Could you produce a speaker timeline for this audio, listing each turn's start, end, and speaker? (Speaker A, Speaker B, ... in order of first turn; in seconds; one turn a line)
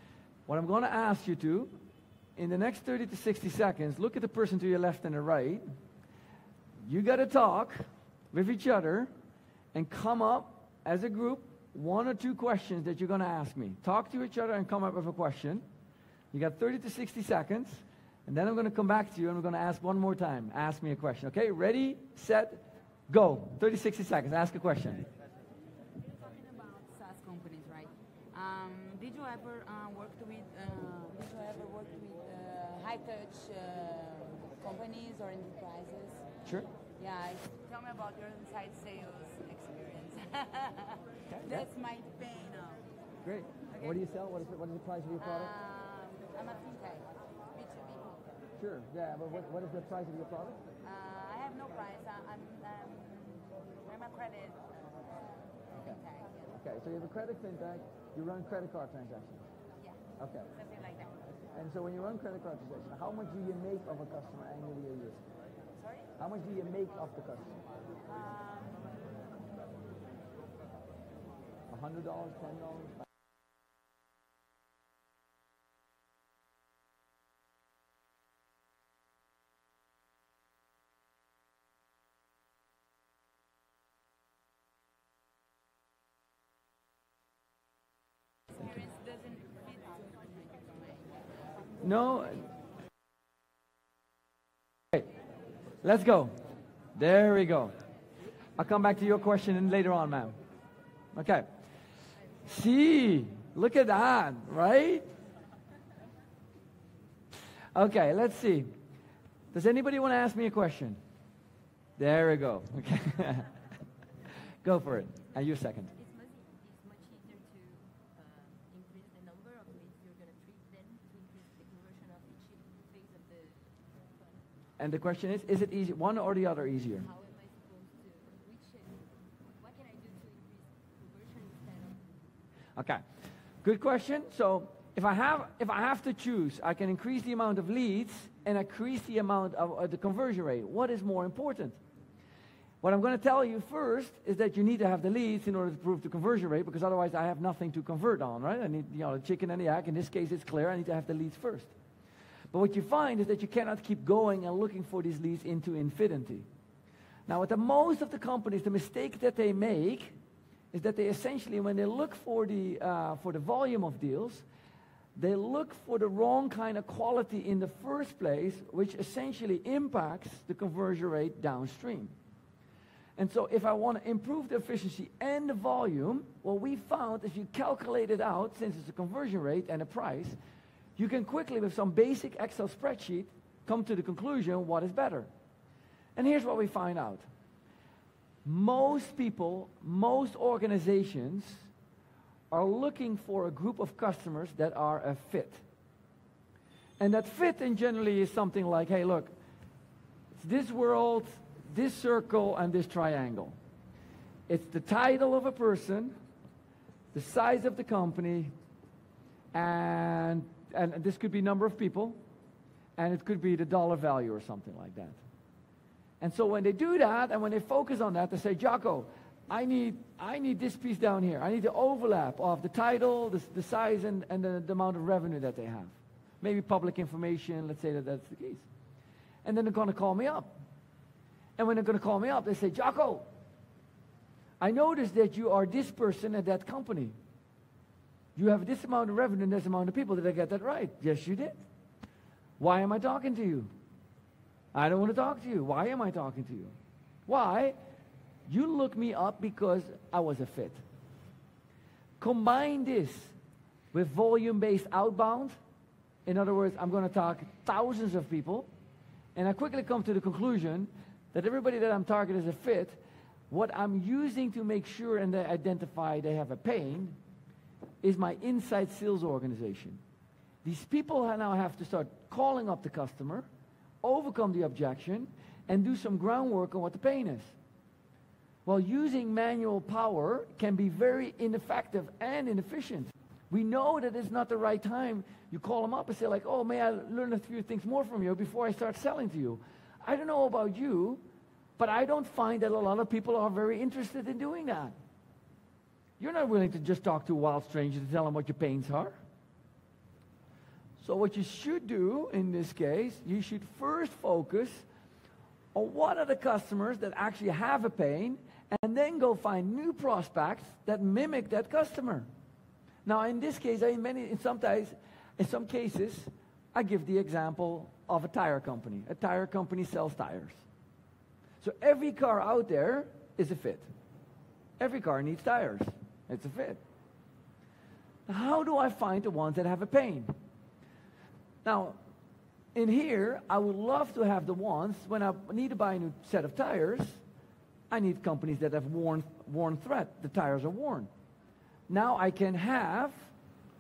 Speaker A: 0.5-1.8
Speaker A: 2.4-5.7
Speaker A: 6.8-9.1
Speaker A: 9.7-15.6
Speaker A: 16.3-25.0
Speaker B: 26.2-36.3
Speaker B: 37.0-42.8
Speaker A: 41.3-41.7
Speaker A: 43.2-45.5
Speaker B: 45.2-48.3
Speaker A: 48.6-50.6
Speaker B: 50.8-56.5
Speaker A: 55.8-59.4
Speaker B: 59.8-60.0
Speaker A: 60.2-60.5
Speaker B: 60.5-61.1
Speaker A: 61.5-65.2
Speaker B: 65.8-66.1
Speaker A: 66.2-67.5
Speaker B: 68.0-68.9
Speaker A: 71.7-73.0
Speaker B: 88.5-91.0
Speaker A: 91.8-92.5
Speaker A: 95.8-96.3
Speaker A: 96.9-97.7
Speaker A: 98.6-100.4
Speaker A: 101.1-101.5
Speaker A: 102.4-105.1
Speaker A: 107.7-108.7
Speaker A: 109.5-111.0
Speaker A: 112.0-113.5
Speaker A: 114.6-115.9
Speaker C: 115.9-124.4
Speaker A: 124.8-127.0
Speaker C: 127.0-132.1
Speaker A: 132.8-133.0
Speaker A: 133.6-141.8
Speaker A: 142.8-151.7
Speaker A: 152.5-156.5
Speaker A: 157.3-160.2
Speaker A: 160.7-164.4
Speaker A: 165.2-172.1
Speaker A: 173.2-180.4
Speaker A: 181.0-185.3
Speaker A: 186.2-187.3
Speaker A: 188.4-191.7
Speaker A: 192.5-195.6
Speaker A: 197.0-199.3
Speaker A: 200.3-203.6
Speaker A: 204.5-206.1
Speaker A: 207.1-208.5
Speaker A: 209.5-212.2
Speaker A: 213.0-215.2
Speaker A: 216.2-228.7
Speaker A: 229.4-230.6
Speaker A: 231.6-233.3
Speaker A: 234.6-237.1
Speaker A: 238.3-241.6
Speaker A: 242.6-243.7
Speaker A: 244.7-246.7
Speaker A: 247.3-247.8
Speaker A: 248.5-250.8
Speaker A: 252.2-253.3
Speaker A: 253.9-255.6
Speaker A: 256.2-258.7
Speaker A: 259.3-267.2
Speaker A: 268.0-270.0
Speaker A: 270.6-273.5
Speaker A: 274.0-277.5
Speaker A: 278.6-291.2
Speaker A: 291.8-294.9
Speaker A: 296.2-299.2
Speaker A: 301.0-304.9
Speaker A: 305.7-312.3
Speaker A: 313.0-320.6
Speaker A: 321.6-323.9
Speaker A: 324.8-326.8
Speaker A: 328.3-330.3
Speaker A: 331.6-332.0
Speaker A: 332.7-337.2
Speaker A: 337.9-341.1
Speaker A: 341.9-343.3